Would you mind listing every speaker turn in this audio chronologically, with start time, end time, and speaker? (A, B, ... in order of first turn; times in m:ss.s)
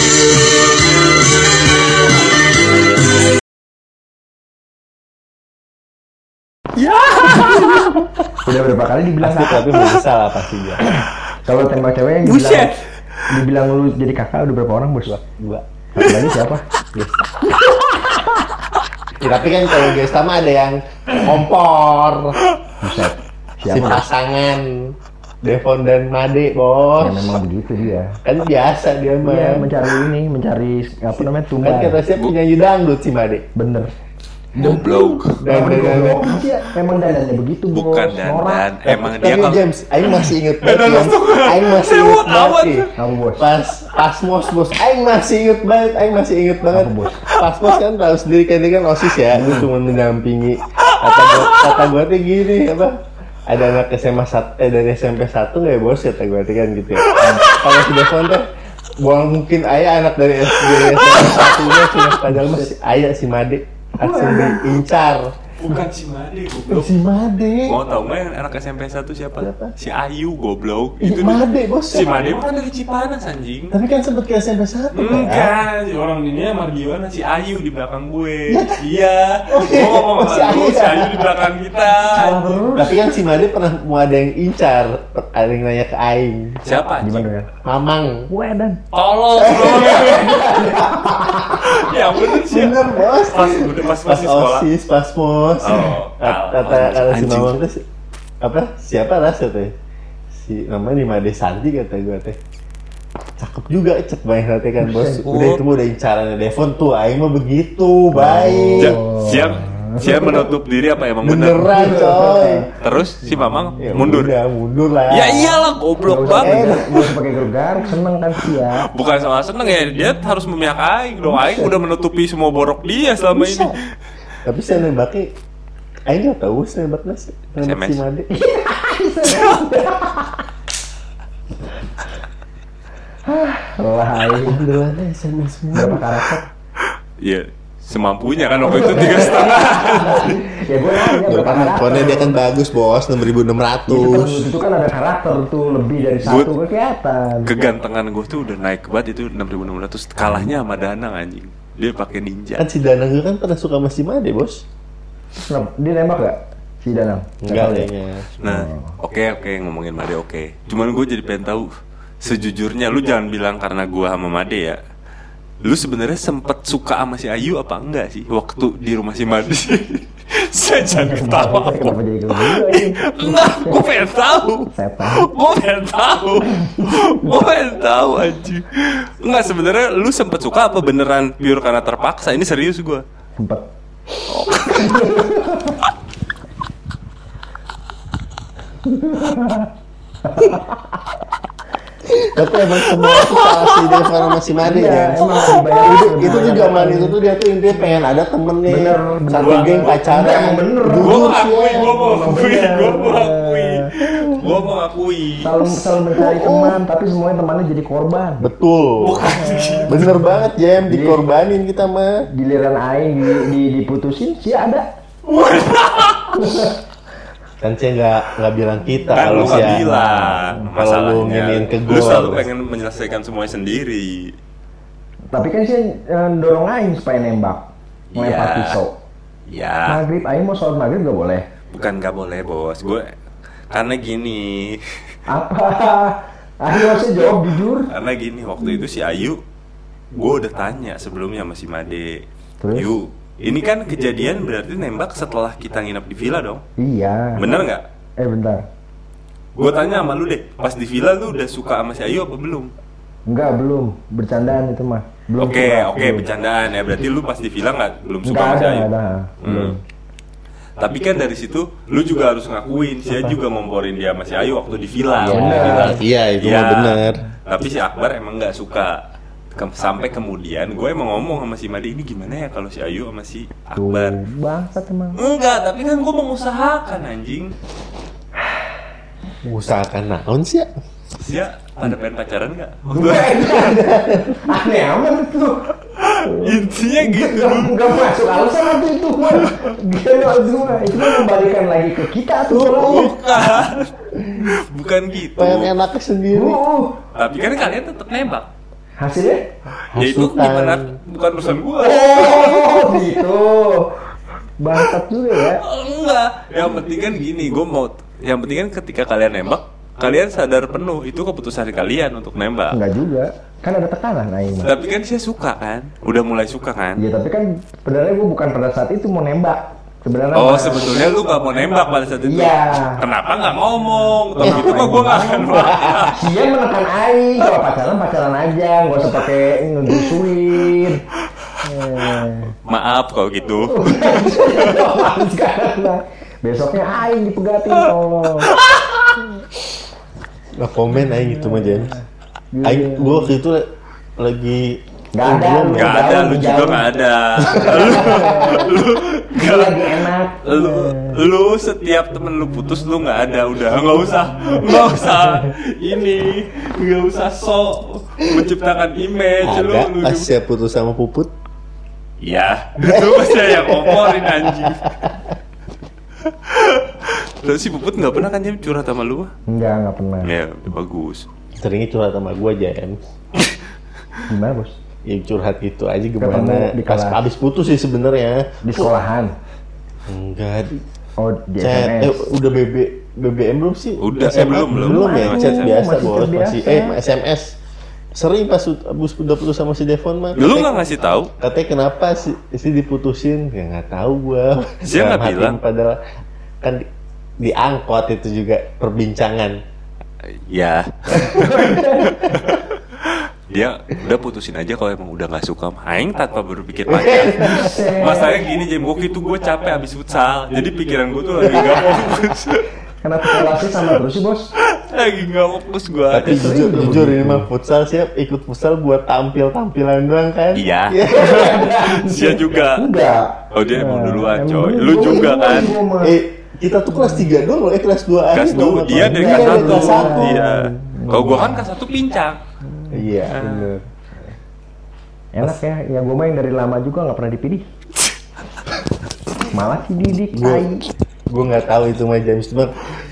0:06.8-0:08.0 A
0:07.3-0:07.7 B
0:08.4-0:09.8 B
0:09.2-0:10.8 C
0:10.8-0:12.7 B
0:12.2-0:12.8 A
0:13.3-0:15.2 B
0:15.1-0:15.6 C
0:16.0-0:16.6 B
0:16.9-0:17.3 C
0:18.0-0:18.3 B
0:19.2-0:22.4 C
0:22.8-0:24.0 B
0:23.7-0:27.4 C
0:27.0-0:28.2 B
0:28.2-0:29.7 C
0:29.2-0:32.0 B
0:31.2-0:33.5 C
0:33.6-0:33.9 B
0:34.6-0:38.7 B
0:34.6-0:35.4 A
0:34.6-0:36.5 C
0:37.7-0:42.9 A
0:38.9-0:58.5 C
0:43.0-0:43.5 B
0:46.7-0:47.3 B
0:49.3-0:49.7 B
0:50.8-0:51.7 A
0:57.1-0:57.8 A
0:57.2-0:57.5 B
0:59.0-1:05.3 C
1:00.6-1:02.2 A
1:02.3-1:02.7 B
1:04.0-1:04.7 B
1:05.6-1:06.9 A
1:06.7-1:07.8 C
1:07.7-1:13.8 A
1:09.4-1:09.7 C
1:11.0-1:12.3 C
1:13.7-1:15.6 C
1:14.9-1:22.6 A
1:18.5-1:18.8 C
1:19.5-1:21.5 C
1:22.2-1:23.0 B
1:22.7-1:26.6 C
1:26.6-1:27.3 A
1:27.0-1:27.5 B
1:27.6-1:28.3 C
1:28.3-1:28.8 B
1:28.9-1:30.7 A
1:29.4-1:30.6 C
1:29.5-1:31.7 B
1:31.5-1:34.7 A
1:32.4-1:37.8 C
1:35.6-1:37.5 A
1:38.4-1:39.7 C
1:40.3-1:42.4 C
1:43.4-1:49.0 C
1:44.8-1:45.3 B
1:45.2-1:45.6 A
1:48.1-1:50.4 B
1:48.8-1:52.1 A
1:50.0-1:50.4 C
1:51.2-1:52.7 C
1:51.7-1:52.7 B
1:52.8-1:54.3 A
1:53.8-1:55.6 C
1:55.1-1:57.1 A
1:56.0-1:58.9 B
1:56.4-1:56.9 C
1:58.4-2:03.8 A
2:04.4-2:05.3 C
2:06.1-2:08.3 C
2:07.6-2:08.0 A
2:08.3-2:10.4 B
2:09.3-2:09.6 A
2:13.2-2:14.6 B
2:14.4-2:16.2 C
2:15.7-2:16.5 B
2:16.8-2:20.4 A
2:18.6-2:22.4 B
2:21.2-2:24.5 C
2:23.9-2:27.5 B
2:26.2-2:26.5 A
2:27.5-2:32.7 A
2:32.6-2:34.6 C
2:35.5-2:37.9 B
2:37.4-2:38.3 C
2:38.4-2:44.8 A
2:38.4-2:38.9 B
2:45.6-3:03.0 A
2:50.9-2:53.9 B
2:54.7-2:55.3 B
2:56.5-2:57.3 B
3:03.4-3:03.7 B
3:04.3-3:05.3 A
3:04.4-3:05.8 B
3:08.9-3:09.7 B
3:10.2-3:11.0 B
3:12.1-3:21.9 C
3:13.1-3:14.1 A
3:14.6-3:17.2 B
3:18.7-3:23.9 B
3:19.4-3:20.0 A
3:20.9-3:25.5 A
3:25.4-3:28.5 B
3:25.6-3:26.8 C
3:28.4-3:29.3 C
3:29.0-3:30.2 A
3:29.3-3:30.3 B
3:29.9-3:32.3 C
3:30.9-3:31.2 B
3:32.3-3:34.9 B
3:35.3-3:36.7 A
3:36.4-3:36.8 B
3:37.6-3:39.9 C
3:39.1-3:44.4 A
3:39.2-3:40.5 B
3:40.7-3:42.5 C
3:45.3-3:49.0 B
3:48.1-3:48.8 A
3:49.5-3:50.0 A
3:49.9-3:51.5 B
3:51.7-3:53.1 A
3:53.7-3:55.0 A
3:55.3-3:57.9 B
3:56.8-3:59.4 A
4:00.2-4:06.6 A
4:02.6-4:02.9 B
4:06.8-4:07.5 B
4:07.4-4:07.8 A
4:08.2-4:08.6 B
4:09.6-4:12.7 A
4:13.3-4:16.3 B
4:15.4-4:18.9 A
4:18.3-4:19.8 B
4:19.4-4:19.8 A
4:20.8-4:29.0 A
4:25.2-4:27.2 C
4:25.3-4:26.0 B
4:29.6-4:34.2 A
4:33.8-4:35.2 B
4:35.2-4:37.5 A
4:39.4-4:40.7 C
4:41.2-4:43.7 A
4:42.9-4:45.6 B
4:43.5-4:44.4 C
4:46.0-4:48.5 A
4:46.2-4:53.2 B
4:49.3-4:49.7 A
4:52.5-4:53.1 C
4:52.6-4:55.7 A
4:54.2-4:54.5 C
4:55.4-4:56.6 C
4:56.3-4:57.0 B
4:57.2-4:58.5 A
4:59.0-4:59.5 B
4:59.9-5:00.9 C
5:00.0-5:03.1 A
5:01.8-5:04.0 B
5:04.6-5:05.6 B
5:05.6-5:12.8 A
5:12.7-5:14.7 B
5:14.6-5:17.0 A
5:17.0-5:21.1 B
5:20.4-5:26.2 A
5:22.2-5:23.0 B
5:24.4-5:25.6 B
5:24.4-5:26.1 C
5:26.1-5:31.0 B
5:31.6-5:32.5 B
5:32.7-5:34.9 A
5:33.7-5:38.6 B
5:38.4-5:39.1 A
5:40.6-5:41.9 C
5:41.1-5:43.4 B
5:42.6-5:46.1 C
5:45.1-5:46.9 B
5:45.7-6:00.3 A
5:47.4-5:48.4 C
5:47.5-5:48.8 B
5:49.4-5:51.2 B
5:59.4-6:01.3 C
6:02.2-6:04.9 A
6:02.8-6:05.2 C
6:06.2-6:09.3 A
6:09.5-6:10.3 B
6:10.2-6:11.3 A
6:11.6-6:13.0 C
6:14.3-6:14.8 B
6:15.1-6:18.9 C
6:16.2-6:17.2 B
6:18.6-6:19.4 B
6:20.1-6:20.8 C
6:21.2-6:22.2 B
6:21.6-6:27.5 C
6:24.0-6:25.8 A
6:24.7-6:27.0 B
6:28.2-6:30.8 C
6:30.4-6:31.3 A
6:31.4-6:36.0 C
6:34.8-6:35.6 A
6:37.4-6:39.6 C
6:40.5-6:52.7 A
6:41.3-6:42.3 B
6:46.9-6:47.8 C
6:47.3-6:48.4 B
6:53.0-6:54.5 B
6:53.2-6:53.9 A
6:54.6-6:56.6 A
6:56.1-7:01.7 C
6:56.2-6:57.5 B
7:00.5-7:02.9 A
7:01.1-7:06.2 B
7:03.5-7:05.8 A
7:06.0-7:10.5 C
7:08.3-7:12.4 A
7:08.9-7:11.6 B
7:12.8-7:13.3 B
7:12.9-7:13.8 C
7:13.3-7:13.7 A
7:15.3-7:17.6 B
7:19.5-7:20.9 B
7:20.2-7:20.7 C
7:21.3-7:22.7 C